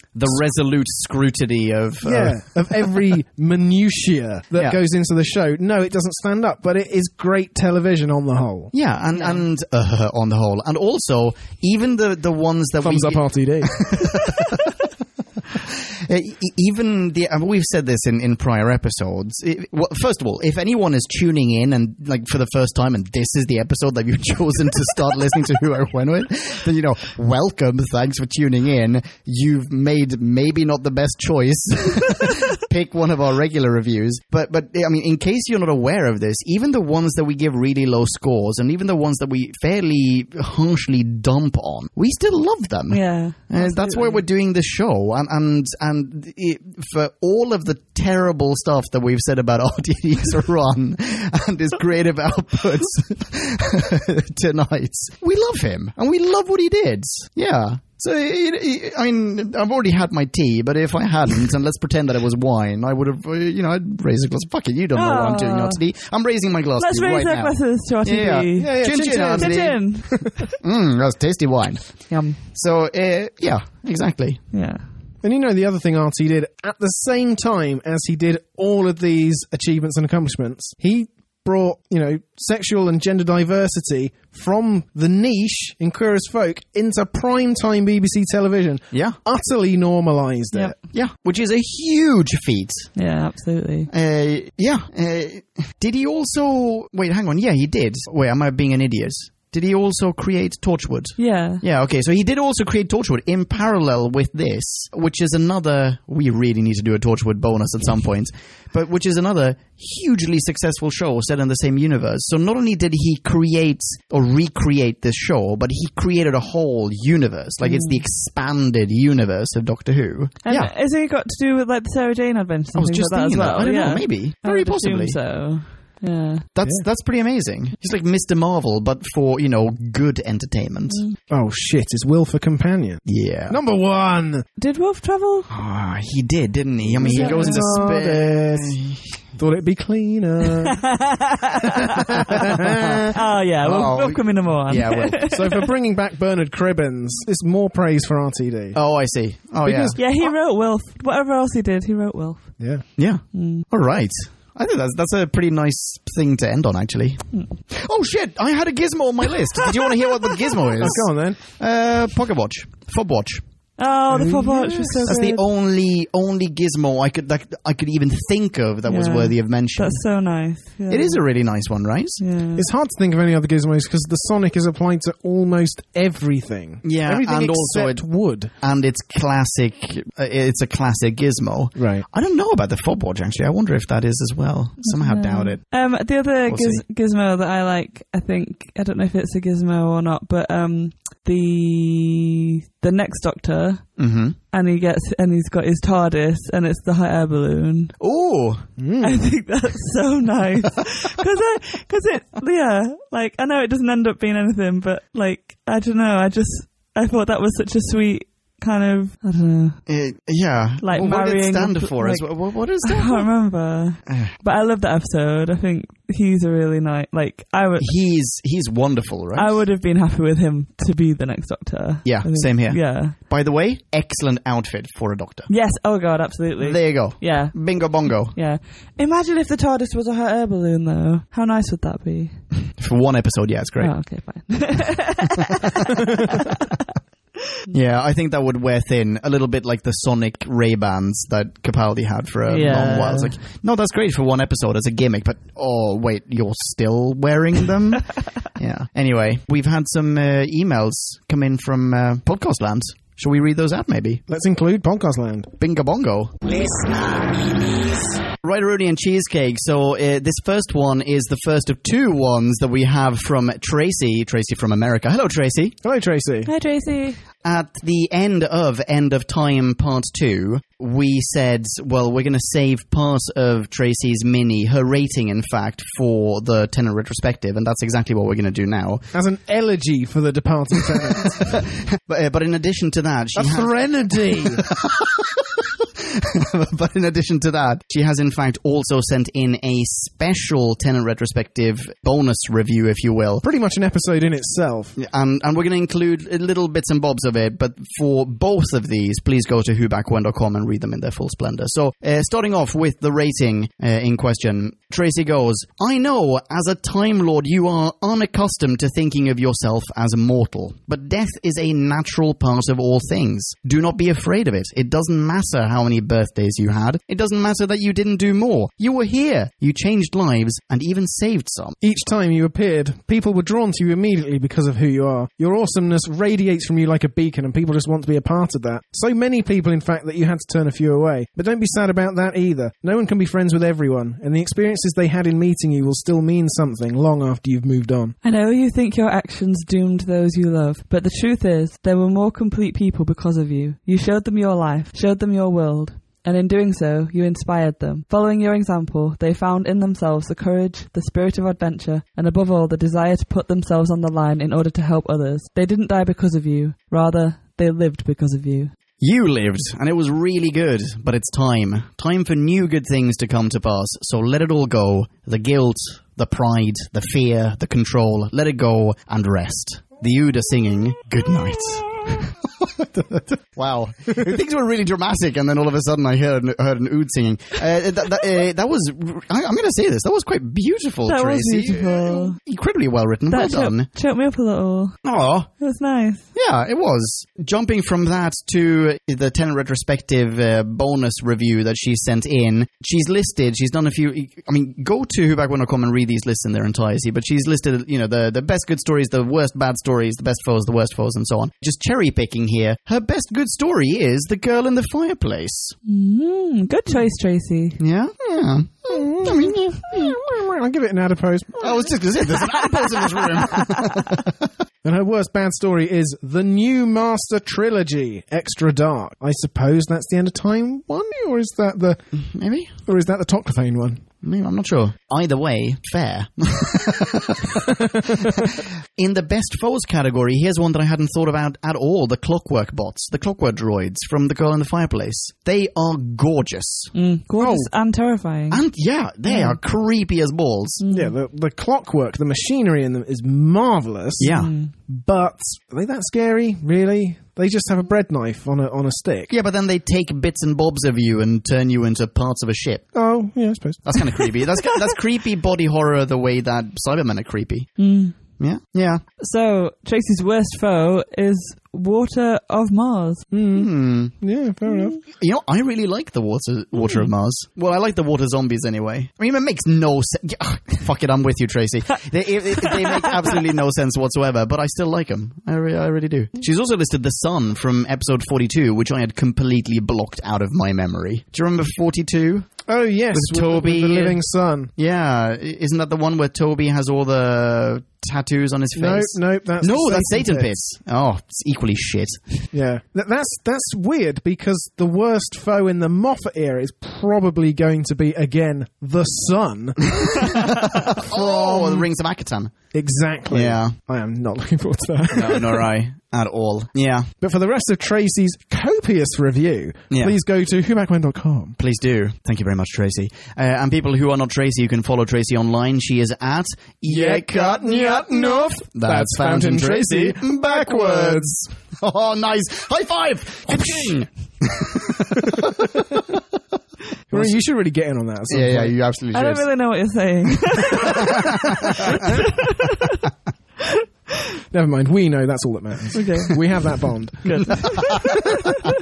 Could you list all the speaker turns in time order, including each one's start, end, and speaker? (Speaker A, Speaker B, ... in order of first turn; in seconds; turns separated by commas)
Speaker A: 0.1-3.0, Speaker B: 2.0-8.7, Speaker A: 8.7-14.7, Speaker B: 12.8-13.9, Speaker A: 15.7-74.4, Speaker C: 42.9-44.2, Speaker C: 64.9-65.8, Speaker C: 66.8-70.5, Speaker B: 68.6-70.3, Speaker C: 72.1-72.4, Speaker C: 74.5-74.8, Speaker B: 75.2-90.8, Speaker A: 88.9-89.2, Speaker A: 90.9-92.9, Speaker C: 93.0-93.9, Speaker A: 93.9-120.7, Speaker C: 101.2-101.6, Speaker C: 117.6-118.0, Speaker C: 120.5-126.5, Speaker A: 122.8-125.2, Speaker A: 126.5-131.0, Speaker C: 130.9-131.2, Speaker B: 131.3-134.5, Speaker A: 133.1-133.6, Speaker C: 134.6-135.5, Speaker A: 135.5-139.2, Speaker B: 136.9-138.8, Speaker C: 137.0-137.8, Speaker B: 139.4-140.8, Speaker C: 140.7-142.5, Speaker B: 142.4-143.1, Speaker A: 142.7-145.3, Speaker C: 143.1-145.7, Speaker B: 145.3-148.8, Speaker A: 148.7-150.0, Speaker B: 149.6-150.2, Speaker C: 150.0-152.6, Speaker B: 152.6-152.8, Speaker A: 153.0-163.4, Speaker C: 153.3-153.7, Speaker B: 160.8-161.4, Speaker C: 163.8-165.4, Speaker B: 164.1-165.2, Speaker A: 165.0-170.0, Speaker C: 168.9-171.2, Speaker A: 170.9-172.2, Speaker C: 172.2-172.7, Speaker B: 172.6-178.5, Speaker A: 176.8-185.8, Speaker B: 181.8-182.1, Speaker C: 184.8-193.9, Speaker A: 186.5-186.8, Speaker A: 194.0-194.4, Speaker C: 194.5-197.9, Speaker A: 198.0-198.7, Speaker B: 198.8-199.3, Speaker C: 199.0-209.8, Speaker A: 209.9-213.3, Speaker C: 210.8-217.9, Speaker A: 214.1-214.3, Speaker A: 217.8-219.6, Speaker C: 219.3-223.2, Speaker A: 222.1-225.5, Speaker C: 225.5-232.4, Speaker A: 226.6-228.4, Speaker A: 232.8-234.5, Speaker C: 233.8-236.5, Speaker A: 237.7-254.2, Speaker C: 242.5-243.4, Speaker B: 254.3-255.5, Speaker A: 255.6-265.8, Speaker B: 265.8-266.5, Speaker C: 266.5-267.2, Speaker A: 267.4-279.1, Speaker B: 279.1-281.6, Speaker A: 281.4-283.7, Speaker B: 283.4-284.6, Speaker A: 284.3-293.4, Speaker B: 293.4-294.9, Speaker A: 295.0-321.8, Speaker B: 321.8-338.1, Speaker C: 338.2-358.7, Speaker A: 359.0-383.9, Speaker C: 381.1-382.4, Speaker C: 383.3-385.0, Speaker A: 385.0-385.5, Speaker C: 385.6-386.3, Speaker A: 386.3-405.8, Speaker C: 405.9-407.8, Speaker A: 407.8-410.2, Speaker B: 408.9-412.6, Speaker A: 411.6-414.3, Speaker B: 414.8-422.0, Speaker A: 422.2-422.7, Speaker B: 422.9-424.0, Speaker A: 424.2-436.9, Speaker B: 427.7-428.4, Speaker C: 436.9-438.6, Speaker B: 437.4-437.7, Speaker A: 438.5-440.8, Speaker C: 439.3-439.6, Speaker C: 440.8-441.1, Speaker B: 440.9-444.4, Speaker A: 444.2-444.5, Speaker C: 444.3-444.7, Speaker B: 444.9-449.3, Speaker A: 449.3-452.9, Speaker B: 452.9-454.5, Speaker A: 453.9-459.0, Speaker C: 457.8-458.2, Speaker C: 459.2-463.3, Speaker B: 463.3-465.0, Speaker A: 463.5-464.1, Speaker A: 465.1-484.2, Speaker B: 482.7-484.7, Speaker A: 484.8-492.5, Speaker B: 488.8-490.5, Speaker B: 492.5-501.9, Speaker A: 500.1-502.6, Speaker B: 502.7-505.7, Speaker A: 503.3-503.8, Speaker A: 505.1-507.1, Speaker B: 507.2-511.6, Speaker A: 511.6-526.0, Speaker B: 516.8-521.3, Speaker B: 525.3-525.8, Speaker A: 527.1-527.4, Speaker B: 527.1-528.7, Speaker A: 528.3-529.5, Speaker C: 529.1-533.0, Speaker A: 530.9-532.2, Speaker B: 534.5-537.6, Speaker C: 535.9-536.4, Speaker C: 537.2-538.5, Speaker A: 537.8-538.2